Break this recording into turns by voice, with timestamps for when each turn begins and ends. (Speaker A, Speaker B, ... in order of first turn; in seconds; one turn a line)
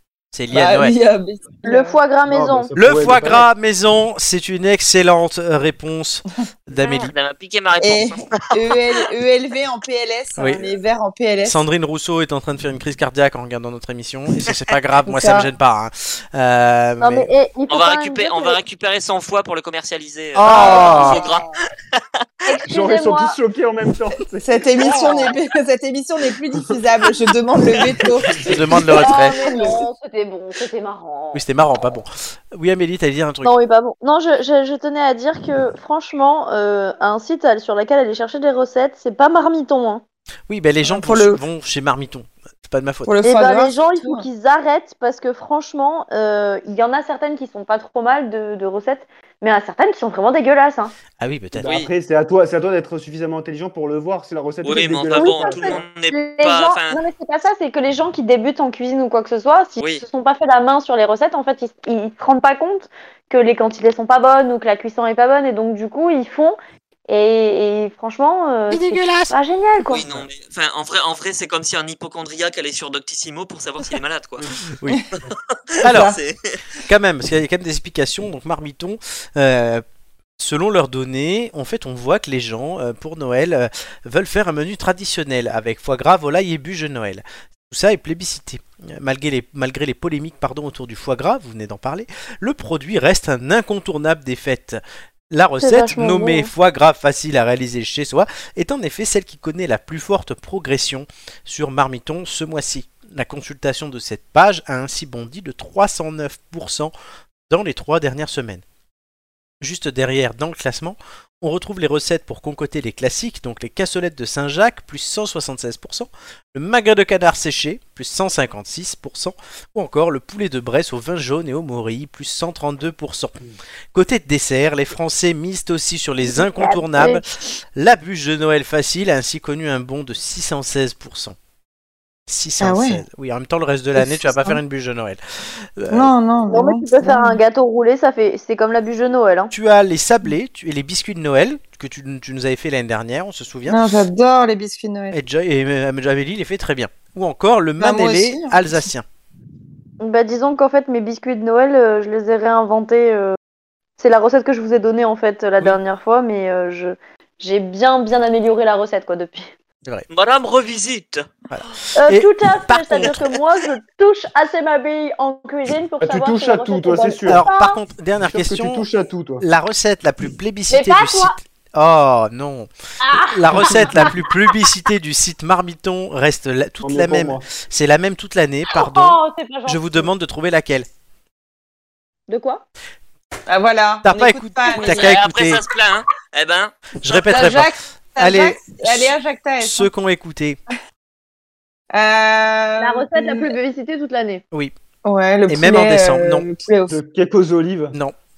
Speaker A: 0.3-0.9
Speaker B: 0.5-2.0
Speaker C: 1.6-2.7
Speaker D: 2.3-3.5
Speaker A: 2.8-7.1
Speaker E: 6.8-9.1
Speaker B: 7.8-11.6
Speaker A: 10.4-10.6
Speaker A: 11.4-17.3
Speaker B: 15.1-15.5
Speaker C: 17.0-18.6
Speaker E: 17.7-22.2
Speaker A: 20.3-21.2
Speaker B: 20.5-21.4
Speaker C: 20.7-21.2
Speaker C: 22.4-23.4
Speaker D: 22.6-25.3
Speaker B: 24.4-28.4
Speaker C: 24.8-25.3
Speaker D: 26.6-26.9
Speaker E: 27.7-28.4
Speaker D: 28.3-28.6
Speaker A: 28.4-29.4
Speaker C: 29.0-31.4
Speaker B: 29.2-29.8
Speaker A: 31.3-33.5
Speaker C: 33.4-40.0
Speaker A: 40.5-43.1
Speaker B: 40.8-41.4
Speaker B: 43.0-44.2
Speaker C: 43.2-50.9
Speaker A: 51.2-51.8
Speaker D: 51.5-55.8
Speaker E: 51.6-51.9
Speaker E: 54.6-57.0
Speaker C: 55.1-66.6
Speaker E: 59.8-60.0
Speaker C: 67.1-70.0
Speaker A: 68.7-69.3
Speaker E: 69.9-74.4
Speaker E: 75.5-76.6
Speaker B: 75.8-76.2
Speaker A: 75.8-76.2
Speaker A: 76.8-79.8
Speaker A: 80.4-94.8
Speaker A: 95.3-106.9
Speaker C: 95.6-96.5
Speaker A: 107.5-108.6
Speaker A: 109.6-123.4
Speaker A: 123.9-127.2
Speaker C: 126.3-127.2
Speaker A: 127.8-131.3
Speaker A: 132.3-136.1
Speaker B: 132.6-133.0
Speaker B: 133.9-134.6
Speaker B: 135.9-137.4
Speaker C: 136.5-139.5
Speaker A: 139.5-143.9
Speaker B: 143.7-145.2
Speaker A: 145.1-149.1
Speaker B: 147.8-148.6
Speaker C: 150.0-153.4
Speaker C: 154.0-159.5
Speaker E: 160.1-161.3
Speaker A: 161.5-163.4
Speaker C: 161.9-167.8
Speaker D: 166.0-167.4
Speaker A: 167.2-168.8
Speaker D: 168.2-169.4
Speaker A: 169.4-180.9
Speaker C: 170.7-171.3
Speaker C: 173.0-174.3
Speaker D: 176.8-177.5
Speaker C: 178.7-180.1
Speaker C: 182.3-182.6
Speaker B: 183.5-185.2
Speaker A: 184.0-185.6
Speaker E: 184.7-187.1
Speaker A: 187.0-190.6
Speaker B: 187.1-189.9
Speaker B: 191.9-193.5
Speaker C: 192.8-194.4
Speaker B: 195.0-196.9
Speaker A: 195.5-196.4
Speaker D: 196.9-197.9